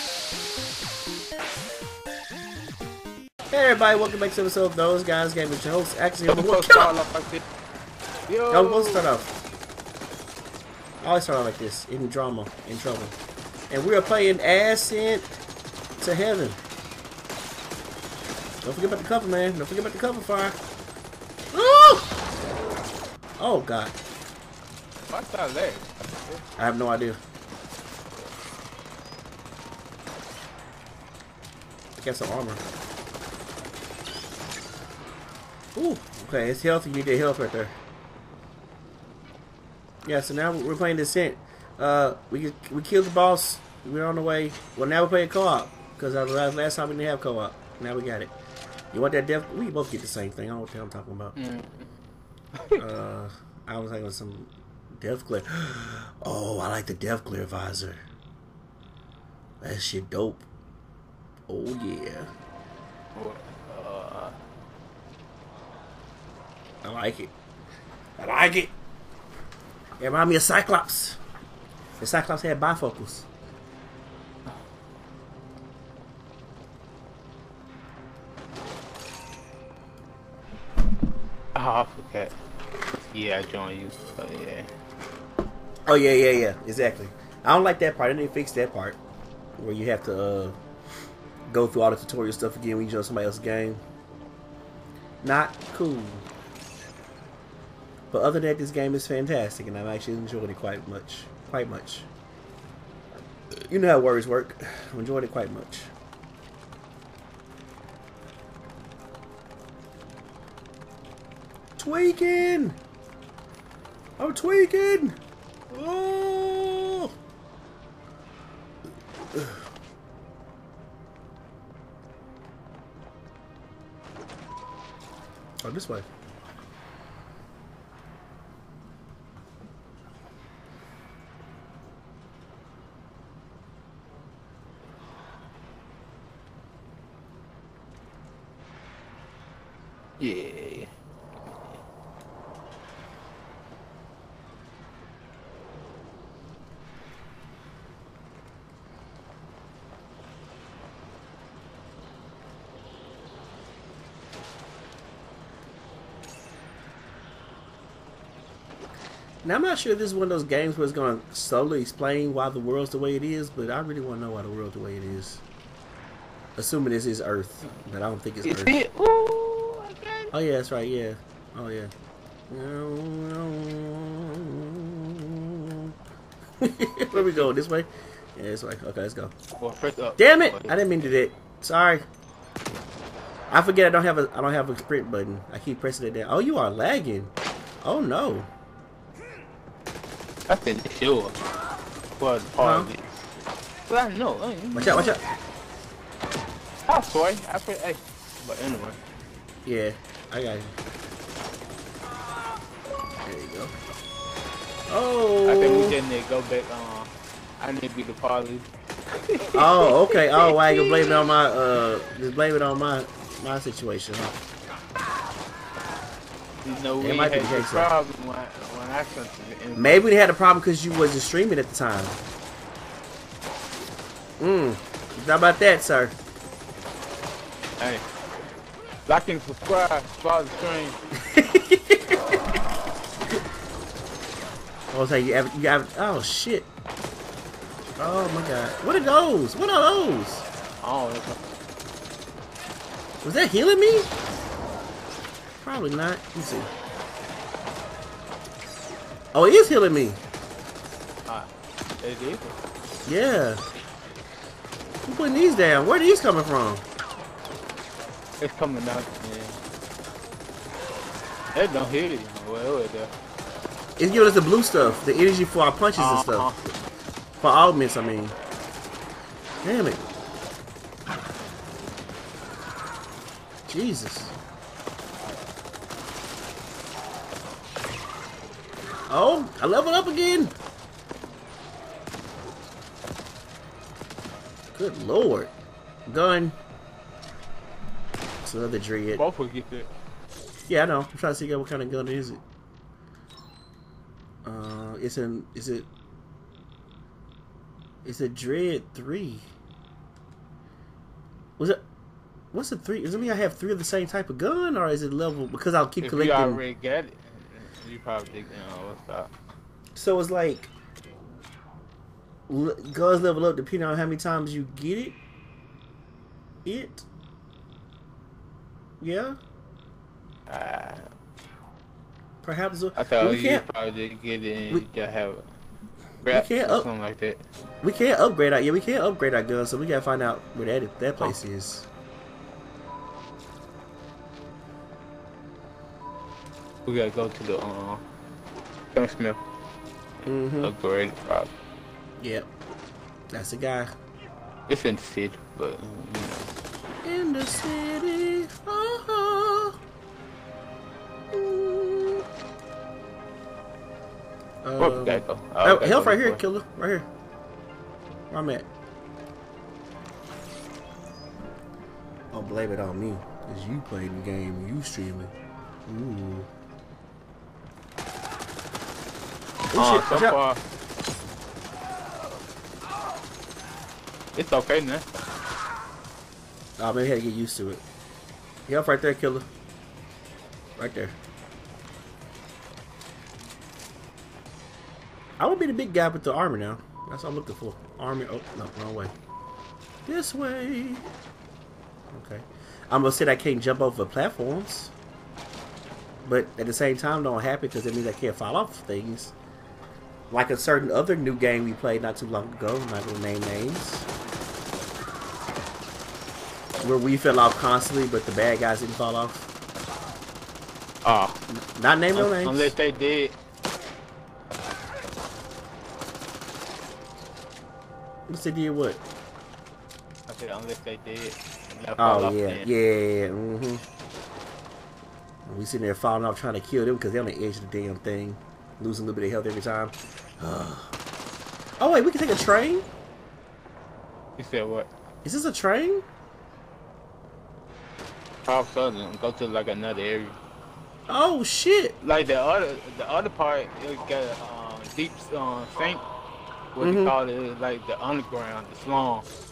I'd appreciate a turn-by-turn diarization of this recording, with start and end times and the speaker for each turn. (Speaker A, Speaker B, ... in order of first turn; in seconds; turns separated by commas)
Speaker A: 3.5-6.9, Speaker B: 6.3-7.5, Speaker B: 8.3-9.2, Speaker A: 8.5-9.3, Speaker A: 11.0-13.2, Speaker A: 13.7-15.3, Speaker A: 16.0-16.6, Speaker A: 18.6-20.6, Speaker A: 21.5-22.2, Speaker A: 23.4-23.9, Speaker B: 25.1-26.4, Speaker A: 26.6-27.2, Speaker A: 32.0-32.6, Speaker A: 35.8-37.8, Speaker A: 40.0-48.3, Speaker A: 48.9-51.4, Speaker B: 51.4-51.9, Speaker B: 52.5-52.8, Speaker A: 52.8-58.0, Speaker A: 59.6-60.5, Speaker A: 61.5-62.3, Speaker B: 63.1-64.4, Speaker A: 66.8-67.3, Speaker A: 68.2-68.7, Speaker A: 70.0-71.2, Speaker A: 72.0-73.3, Speaker B: 81.5-82.3, Speaker B: 83.1-84.7, Speaker A: 85.8-89.0, Speaker A: 89.6-90.5, Speaker A: 91.5-93.8, Speaker A: 95.2-96.3, Speaker A: 98.1-102.1, Speaker A: 103.7-105.9, Speaker A: 111.8-112.8, Speaker A: 114.2-115.2, Speaker A: 115.7-117.1, Speaker A: 119.3-119.6, Speaker A: 125.6-126.0, Speaker B: 140.2-140.9, Speaker A: 159.4-165.4, Speaker A: 166.6-168.8, Speaker B: 168.4-170.3, Speaker A: 170.3-171.9, Speaker A: 172.5-175.9, Speaker A: 176.6-179.3, Speaker B: 177.1-177.5, Speaker B: 179.6-181.1, Speaker A: 180.2-182.1, Speaker A: 183.5-188.5, Speaker B: 190.5-191.4, Speaker B: 192.2-193.1, Speaker A: 192.6-192.9, Speaker B: 193.9-195.2, Speaker A: 194.7-195.2, Speaker B: 196.9-199.0, Speaker A: 199.7-200.8, Speaker A: 203.2-203.8, Speaker A: 204.9-206.0, Speaker B: 205.4-211.2, Speaker A: 209.5-214.4, Speaker B: 216.6-220.1, Speaker A: 217.0-217.9, Speaker A: 219.8-222.2, Speaker A: 224.4-226.2, Speaker B: 227.8-228.1, Speaker B: 229.1-231.0, Speaker A: 231.2-232.4, Speaker A: 234.9-236.7, Speaker A: 238.0-240.5, Speaker B: 240.8-241.4, Speaker A: 243.2-244.1, Speaker A: 245.6-246.7, Speaker A: 249.3-250.2, Speaker B: 252.0-252.6, Speaker A: 253.1-253.6, Speaker A: 255.1-256.8, Speaker B: 258.4-259.6, Speaker B: 261.5-263.1, Speaker A: 264.0-266.7, Speaker B: 265.9-266.6, Speaker A: 267.4-268.4, Speaker A: 269.6-270.0, Speaker A: 273.7-274.3, Speaker A: 279.1-280.5, Speaker A: 284.7-285.5, Speaker A: 286.1-286.6, Speaker A: 288.4-289.2, Speaker B: 289.1-289.9, Speaker A: 290.7-292.4, Speaker A: 294.4-295.9, Speaker A: 298.0-299.5, Speaker A: 302.5-306.6, Speaker B: 306.0-309.3, Speaker A: 309.9-310.7, Speaker A: 312.5-315.2, Speaker A: 316.6-317.1, Speaker A: 319.0-319.4, Speaker B: 320.5-321.1, Speaker A: 322.4-323.6, Speaker B: 323.0-325.4, Speaker B: 326.2-327.4, Speaker A: 326.3-326.9, Speaker A: 327.8-331.9, Speaker B: 336.9-338.0, Speaker B: 338.9-339.4, Speaker A: 340.2-340.7, Speaker B: 340.6-341.5, Speaker A: 342.2-342.5, Speaker A: 343.3-343.9, Speaker B: 344.7-346.6, Speaker A: 347.0-349.8, Speaker A: 351.3-352.2, Speaker A: 354.6-357.1, Speaker B: 354.8-356.4, Speaker A: 358.3-358.7, Speaker A: 362.3-365.3, Speaker A: 365.9-366.5, Speaker A: 369.7-370.4, Speaker B: 369.7-370.6, Speaker B: 374.4-375.1, Speaker A: 376.8-377.8, Speaker A: 378.7-379.5, Speaker A: 380.8-381.2, Speaker A: 385.4-389.1, Speaker A: 390.1-391.1, Speaker A: 392.1-394.9, Speaker A: 396.2-399.3, Speaker A: 400.3-404.1, Speaker A: 406.8-409.5, Speaker B: 411.1-411.4, Speaker A: 411.5-412.7, Speaker B: 412.1-413.4, Speaker A: 418.3-419.0, Speaker B: 420.3-422.7, Speaker A: 422.0-423.8, Speaker A: 425.4-430.9, Speaker A: 431.8-432.9, Speaker B: 434.4-434.9, Speaker A: 435.2-436.1, Speaker B: 438.5-440.4, Speaker A: 441.1-441.9, Speaker B: 442.0-446.0, Speaker B: 446.7-449.3, Speaker A: 446.8-447.1